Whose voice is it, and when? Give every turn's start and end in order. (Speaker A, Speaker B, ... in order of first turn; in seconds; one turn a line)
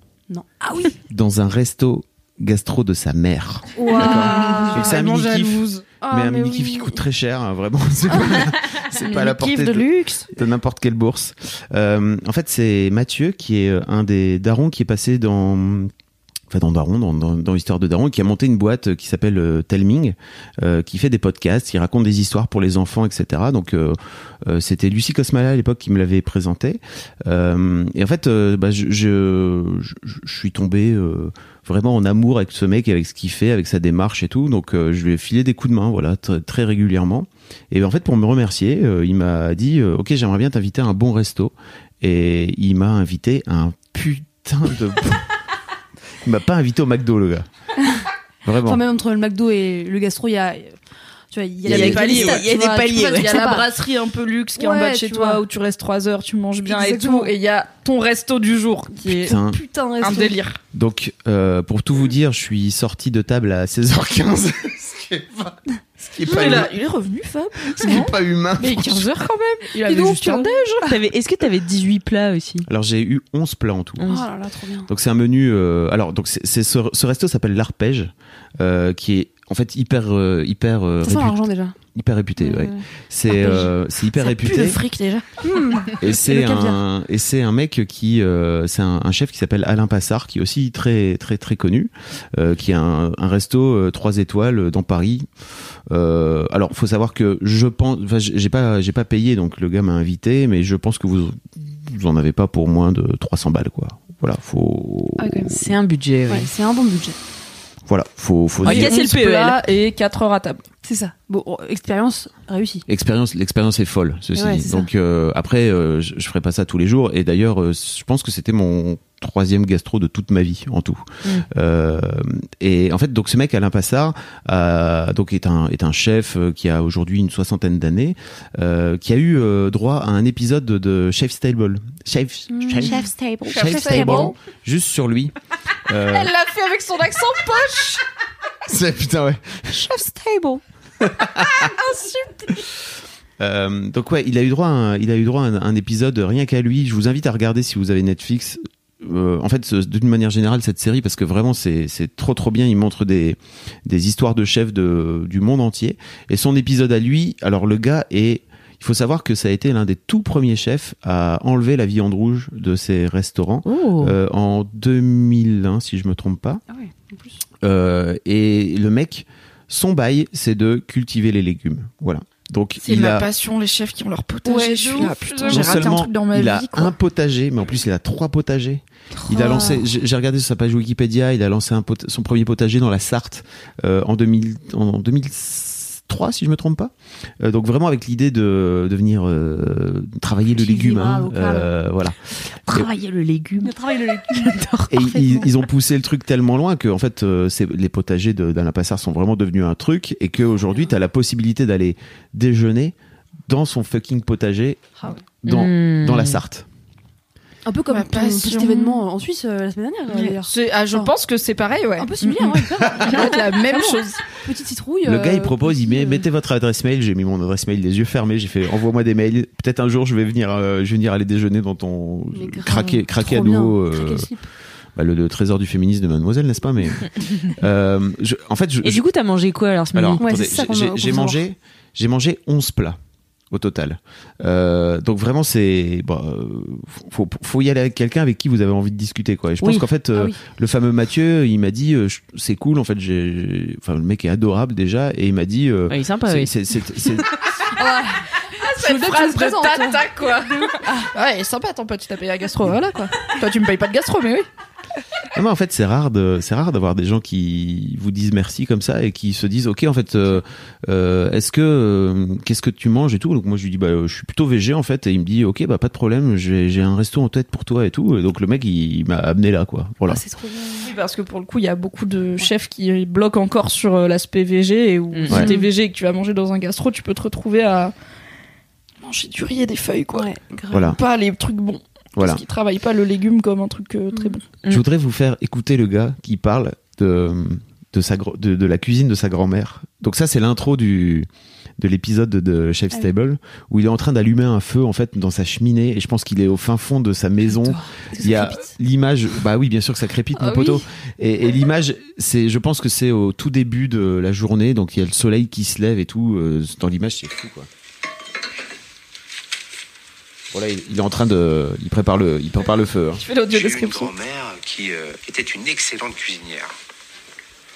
Speaker A: 0.3-1.0
Speaker B: 1.1-15.9
Speaker A: 3.8-5.0
Speaker C: 3.9-5.9
Speaker A: 6.0-7.0
Speaker C: 8.9-10.3
Speaker B: 16.5-45.3
Speaker B: 46.2-47.5
Speaker B: 48.5-48.8
Speaker A: 48.7-50.8
Speaker A: 51.3-52.5
Speaker B: 51.6-52.4
Speaker C: 51.7-59.4
Speaker D: 52.0-53.6
Speaker A: 53.2-53.7
Speaker A: 54.6-55.4
Speaker A: 56.6-57.3
Speaker A: 59.0-60.4
Speaker B: 59.3-59.6
Speaker C: 60.0-60.6
Speaker B: 60.7-66.7
Speaker C: 66.2-70.9
Speaker B: 67.6-69.1
Speaker A: 69.8-70.9
Speaker D: 70.9-72.7
Speaker B: 72.7-74.0
Speaker D: 74.0-74.3
Speaker A: 74.1-74.9
Speaker B: 74.9-81.4
Speaker A: 81.0-81.8
Speaker B: 81.9-84.8
Speaker A: 82.4-82.8
Speaker C: 83.3-85.9
Speaker A: 85.4-86.8
Speaker B: 86.0-95.3
Speaker B: 95.9-105.6
Speaker A: 105.2-105.6
Speaker D: 105.5-106.5
Speaker A: 106.3-107.2
Speaker B: 107.9-108.9
Speaker D: 108.6-109.6
Speaker C: 108.7-110.6
Speaker A: 110.8-112.8
Speaker B: 112.9-136.3
Speaker A: 114.3-114.9
Speaker A: 132.5-134.1
Speaker D: 132.9-134.3
Speaker C: 133.4-134.4
Speaker C: 136.1-138.0
Speaker B: 138.7-139.8
Speaker D: 139.9-140.6
Speaker B: 141.0-141.7
Speaker C: 141.4-142.6
Speaker B: 143.4-166.6
Speaker D: 163.7-164.2
Speaker A: 166.7-167.4
Speaker B: 167.6-173.3
Speaker C: 172.8-176.9
Speaker A: 174.4-176.0
Speaker B: 175.5-192.9
Speaker A: 179.2-179.8
Speaker D: 190.6-191.7
Speaker D: 192.7-193.7
Speaker A: 193.6-194.5
Speaker D: 194.3-195.1
Speaker B: 194.9-202.9
Speaker A: 195.1-195.5
Speaker B: 203.5-204.8
Speaker B: 205.4-206.7
Speaker D: 205.5-206.4
Speaker A: 207.7-211.1
Speaker C: 207.9-209.0
Speaker C: 210.2-212.1
Speaker A: 212.0-216.2
Speaker D: 212.2-212.6
Speaker C: 213.0-214.2
Speaker B: 215.0-224.3
Speaker A: 222.3-224.5
Speaker B: 225.0-229.0
Speaker D: 228.8-230.2
Speaker B: 229.9-233.0
Speaker A: 230.2-231.4
Speaker B: 233.5-247.3
Speaker D: 239.6-239.9
Speaker A: 240.1-240.4
Speaker D: 245.9-246.5
Speaker A: 247.7-251.1
Speaker C: 248.6-254.5
Speaker B: 255.3-270.2
Speaker A: 270.1-270.9
Speaker C: 270.8-277.9
Speaker D: 275.1-275.5
Speaker A: 275.3-275.7
Speaker C: 279.0-280.3
Speaker A: 280.1-281.0
Speaker B: 280.7-281.0
Speaker C: 280.9-284.4
Speaker B: 282.2-282.4
Speaker B: 284.7-291.3
Speaker B: 291.8-307.7
Speaker A: 297.5-298.7
Speaker A: 300.4-300.8
Speaker B: 310.5-313.2
Speaker C: 313.2-314.1
Speaker E: 313.5-316.7